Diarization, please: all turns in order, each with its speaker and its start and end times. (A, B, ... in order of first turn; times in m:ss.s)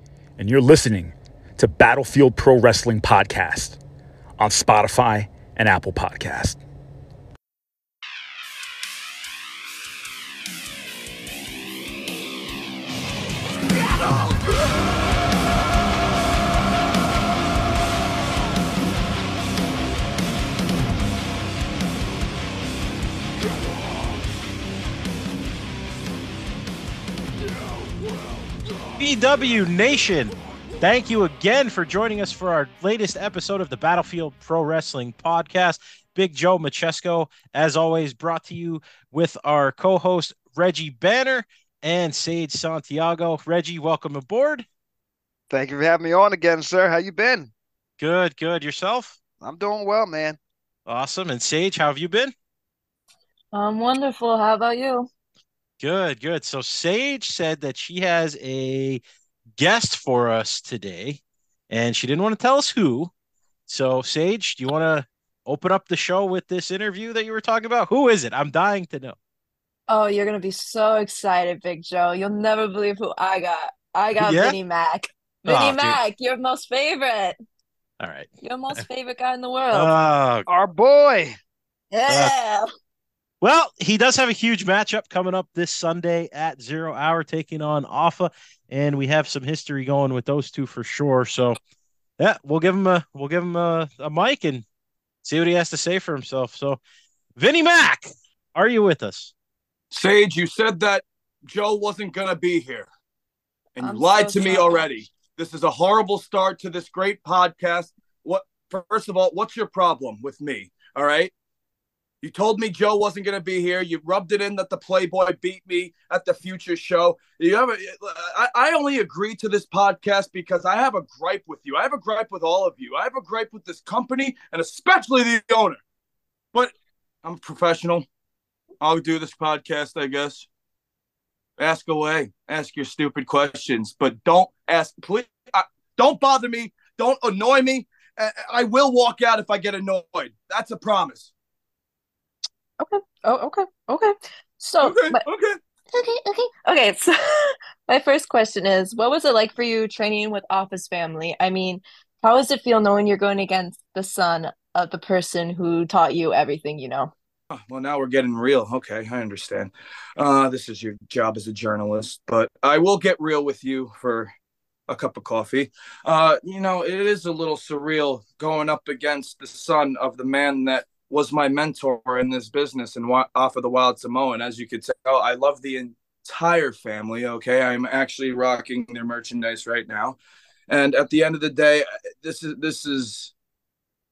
0:00.4-0:03.8 A
0:04.4-0:06.6 A
0:29.0-0:44.6 B
0:45.5-0:47.5 C
0:48.0-0:49.2 B
0:49.4-0:50.4 C
0:50.9-0:52.3 B
0:53.5-0:55.1 D
0:55.8-0:59.0 B
0:59.6-1:03.1 B
1:03.7-1:09.2 B
1:09.9-1:17.4 D
1:14.2-1:14.6 B
1:15.4-1:16.0 B
1:18.0-1:18.8 B
1:18.4-1:19.9 D
1:19.7-1:20.5 B
1:20.5-1:21.4 C
1:21.9-1:22.7 D
1:23.4-1:31.6 B
1:32.2-1:34.6 B
1:35.2-1:36.8 B
1:37.4-1:39.3 B
1:39.9-1:42.9 E
1:43.8-1:51.3 E
1:43.8-1:44.8 D
1:52.2-2:05.8 E
2:06.5-2:08.1 E
2:08.8-2:10.5 E
2:11.6-2:21.3 E
2:22.8-2:25.2 D
2:24.8-2:25.6 E
2:25.9-2:37.1 D
2:37.5-2:44.3 E
2:44.9-3:00.2 E
3:00.7-3:03.3 E